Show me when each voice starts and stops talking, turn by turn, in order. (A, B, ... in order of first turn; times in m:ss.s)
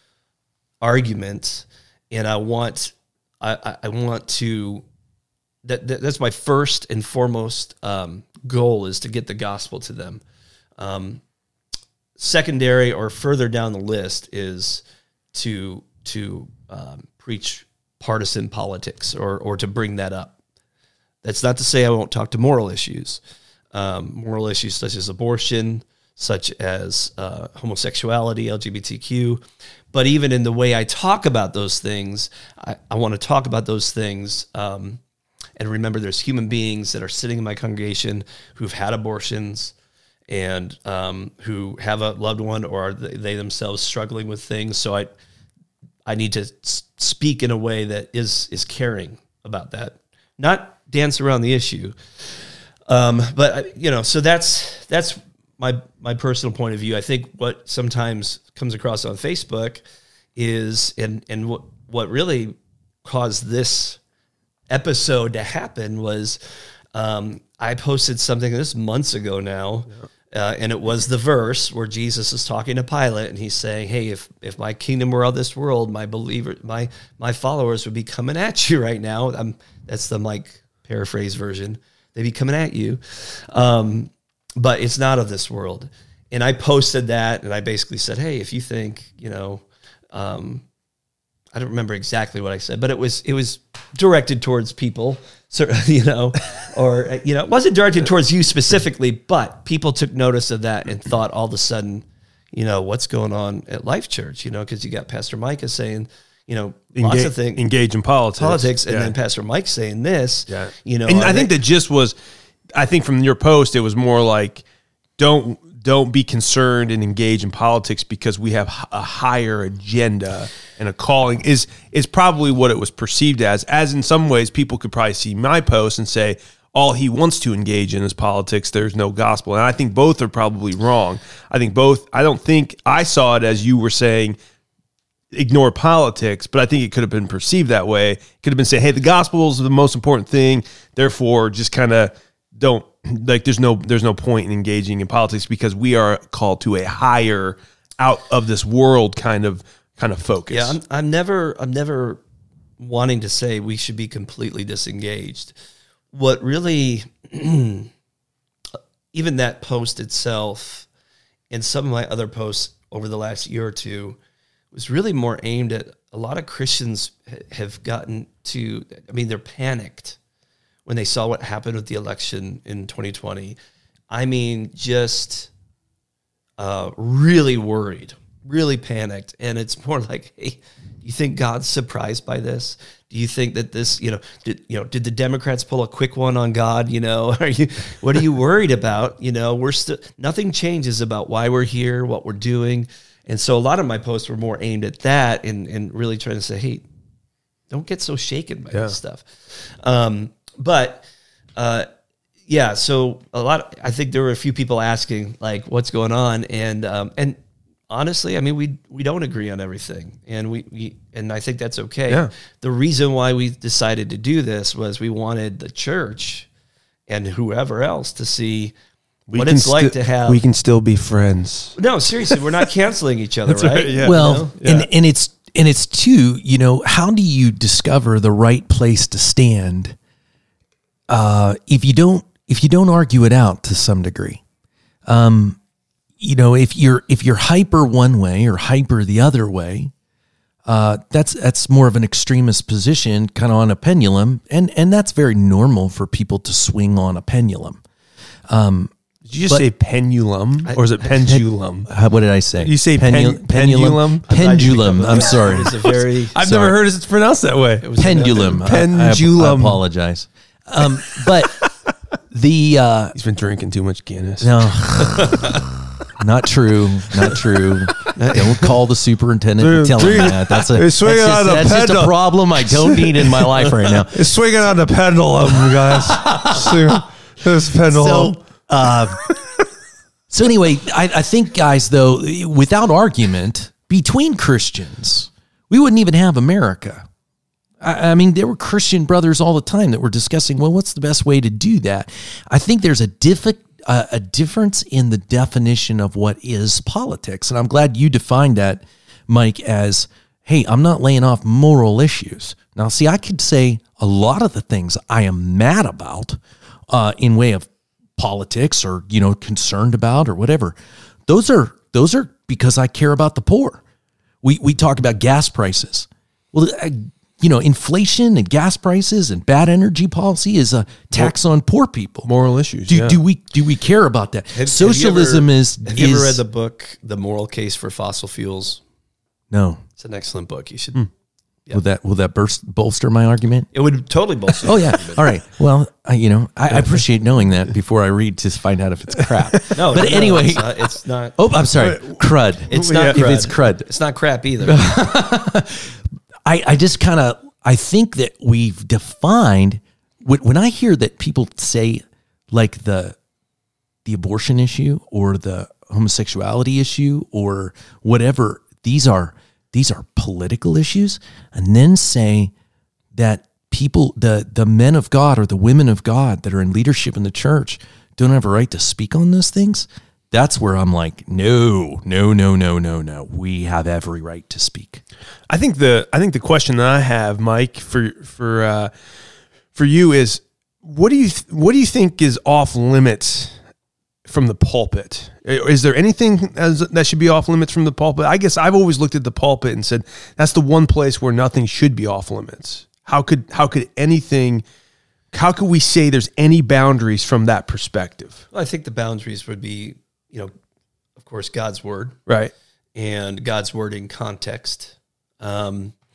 0:00.8-0:04.8 A
0:05.6-0:10.2 A
0:10.8-0:11.2 A
0:12.2-0:20.3 A
0:21.2-0:23.2 A
0:23.7-0:29.4 A
0:29.9-0:35.0 A
0:35.6-0:39.7 A
0:40.3-0:45.1 A
0:46.0-0:51.9 A
0:52.9-0:59.8 A
1:00.4-1:04.0 A
1:04.7-1:06.4 A
1:06.9-1:30.6 A
1:31.5-1:47.6 A
1:47.0-1:49.1 B
1:48.4-1:51.5 A
1:50.5-1:52.2 B
1:52.7-1:54.6 B
1:55.2-2:14.4 B
2:15.3-2:30.7 B
2:30.5-2:32.2 A
2:32.8-2:35.5 A
2:36.1-2:37.9 A
2:39.1-2:40.9 A
2:41.5-2:44.2 A
2:44.7-2:50.2 A
2:50.8-2:53.6 A
2:54.1-2:55.5 A
2:56.6-3:16.8 A
3:17.7-3:21.0 A
3:21.6-3:21.9 A
3:22.5-3:27.4 A
3:27.9-3:36.5 A
3:37.1-3:38.7 A
3:39.3-3:41.8 B
3:39.3-3:40.4 A
3:41.8-3:44.5 A
3:43.5-3:44.9 B
3:44.0-3:50.0 C
3:51.1-3:54.4 C
3:55.0-3:55.6 C
3:56.2-3:59.9 C
4:00.6-4:07.8 C
4:08.5-4:08.9 C
4:09.3-4:11.9 B
4:10.6-4:11.1 A
4:11.2-4:15.8 C
4:12.6-4:14.2 B
4:14.3-4:16.4 A
4:15.3-4:17.9 B
4:16.4-4:16.7 C
4:17.8-4:18.6 A
4:18.0-4:21.6 C
4:18.6-4:19.8 B
4:21.2-4:21.7 B
4:22.3-4:23.1 C
4:23.2-4:24.5 B
4:24.4-4:25.6 C
4:25.1-4:25.5 B
4:26.2-4:34.3 C
4:28.2-4:28.6 A
4:29.6-4:38.3 B
4:35.5-4:37.0 C
4:37.8-4:39.3 C
4:40.3-4:47.1 C
4:47.8-5:10.7 C
5:11.3-5:13.8 C
5:14.4-5:22.3 C
5:22.2-5:23.2 B
5:22.9-5:26.4 C
5:24.5-5:28.8 A
5:29.5-5:29.8 C
5:30.0-5:31.1 A
5:31.7-5:33.7 C
5:33.7-5:35.3 A
5:34.6-5:40.8 C
5:39.7-5:41.4 A
5:41.4-5:43.9 C
5:41.8-5:43.2 B
5:42.7-5:44.9 A
5:44.6-5:53.2 C
5:54.0-6:02.5 C
6:03.1-6:15.0 C
6:15.5-6:18.9 B
6:19.7-6:23.6 B
6:24.2-6:34.6 B
6:35.3-6:38.4 B
6:38.5-6:40.5 A
6:41.2-6:42.2 A
6:42.3-6:42.5 B
6:43.0-6:45.9 A